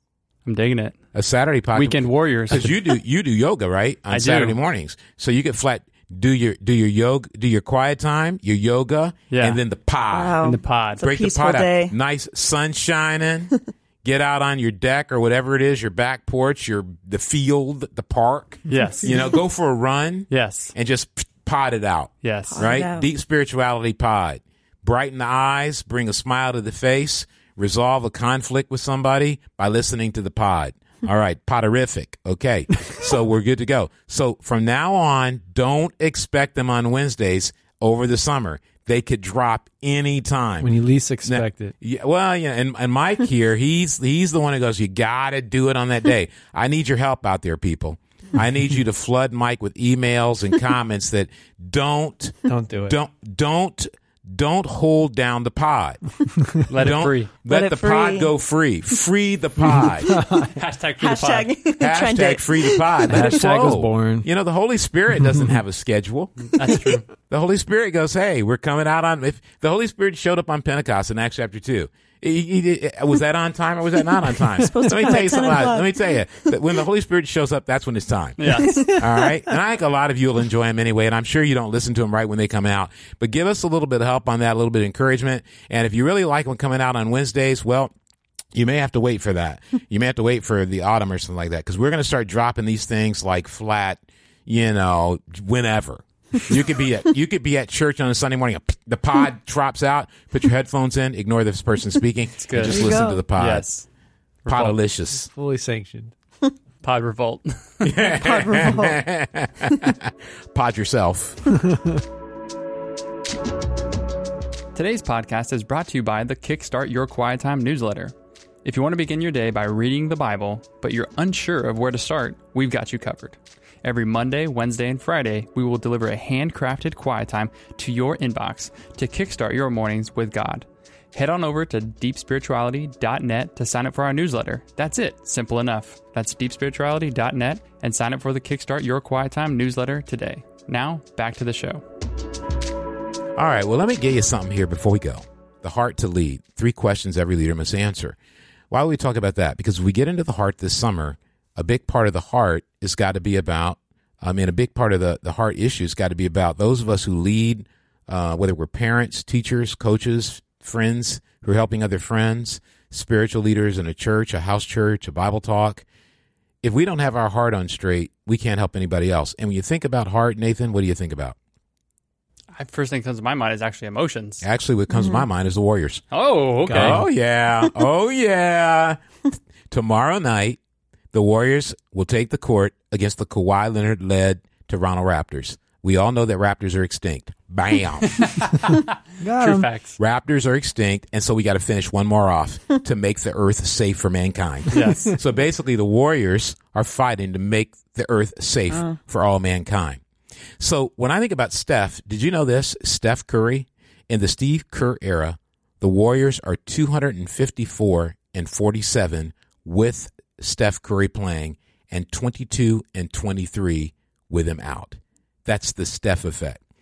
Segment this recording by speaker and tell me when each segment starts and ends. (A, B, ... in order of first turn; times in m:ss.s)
0:00.4-0:01.0 A
0:01.1-0:10.4 B
0:01.7-0:03.0 A
0:04.1-0:04.6 A
0:09.3-0:09.6 A
0:10.1-0:11.9 C
0:10.4-0:11.0 A
0:11.0-0:40.7 B
0:18.7-0:19.4 A
0:20.3-0:20.7 A
0:22.2-0:22.7 A
0:22.5-0:23.1 C
0:40.6-0:41.7 D
0:41.2-0:52.4 B
0:52.4-0:53.0 D
0:52.9-0:56.0 B
0:56.5-1:00.1 B
0:56.7-0:57.3 A
0:57.4-0:58.3 C
1:00.1-1:00.5 D
1:00.3-1:01.5 A
1:01.0-1:03.2 C
1:01.8-1:27.9 B
1:03.1-1:04.3 D
1:06.5-1:07.0 A
1:14.6-1:16.2 C
1:18.4-1:18.9 A
1:18.5-1:19.5 C
1:28.5-1:43.7 B
1:42.4-1:43.8 A
1:42.6-1:43.2 C
1:44.4-1:44.7 A
1:44.5-1:45.3 B
1:45.1-1:46.1 D
1:46.8-1:47.9 A
1:47.8-1:51.6 B
1:48.1-1:49.0 C
1:51.6-1:52.0 D
1:54.7-2:21.8 A
2:23.4-2:28.2 B
2:28.7-2:45.8 B
2:46.6-2:51.4 B
2:52.5-2:54.4 A
2:54.4-2:56.0 B
2:54.9-2:55.3 C
2:56.1-2:57.0 A
2:56.6-2:57.0 D
2:56.7-2:59.0 B
2:59.7-3:00.6 B
3:01.1-3:08.4 B
3:08.1-3:08.8 A
3:09.2-3:09.7 D
3:09.4-3:09.9 A
3:10.0-3:20.0 B
3:14.7-3:15.2 A
3:18.7-3:19.0 C
3:20.6-3:36.6 B